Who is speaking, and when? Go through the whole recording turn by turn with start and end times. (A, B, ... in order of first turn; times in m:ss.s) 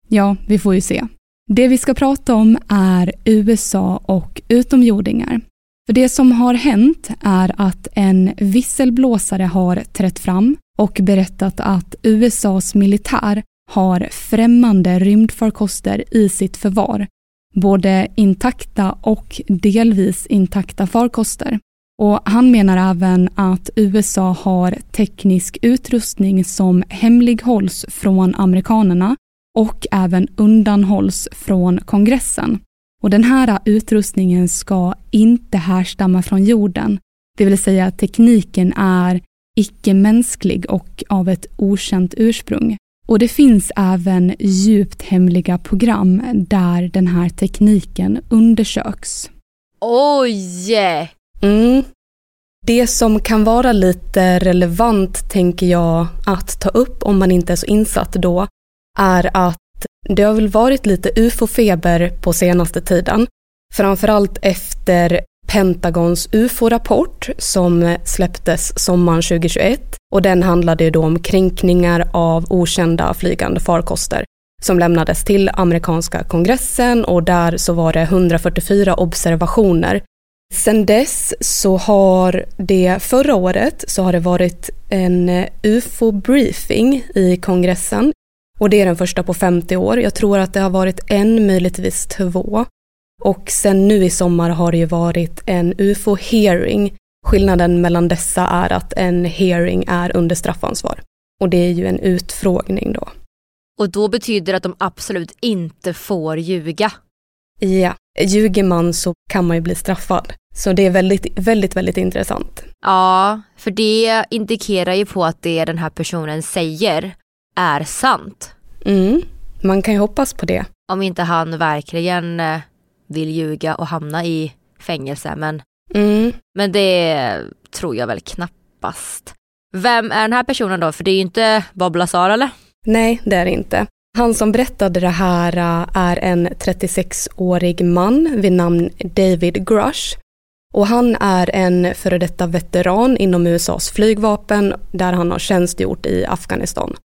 0:00.1-0:49.3 A
0:49.8-0:51.1 B
0:51.4-0:51.8 A
0:52.6-1:32.7 A
1:33.2-1:43.1 A
1:43.8-1:46.9 B
1:47.6-1:52.6 A
1:52.8-1:58.5 B
1:58.8-2:00.7 A
2:00.9-2:05.6 B
2:05.9-2:06.4 A
2:06.5-2:12.5 B
2:12.8-2:20.2 A
2:20.7-2:27.0 A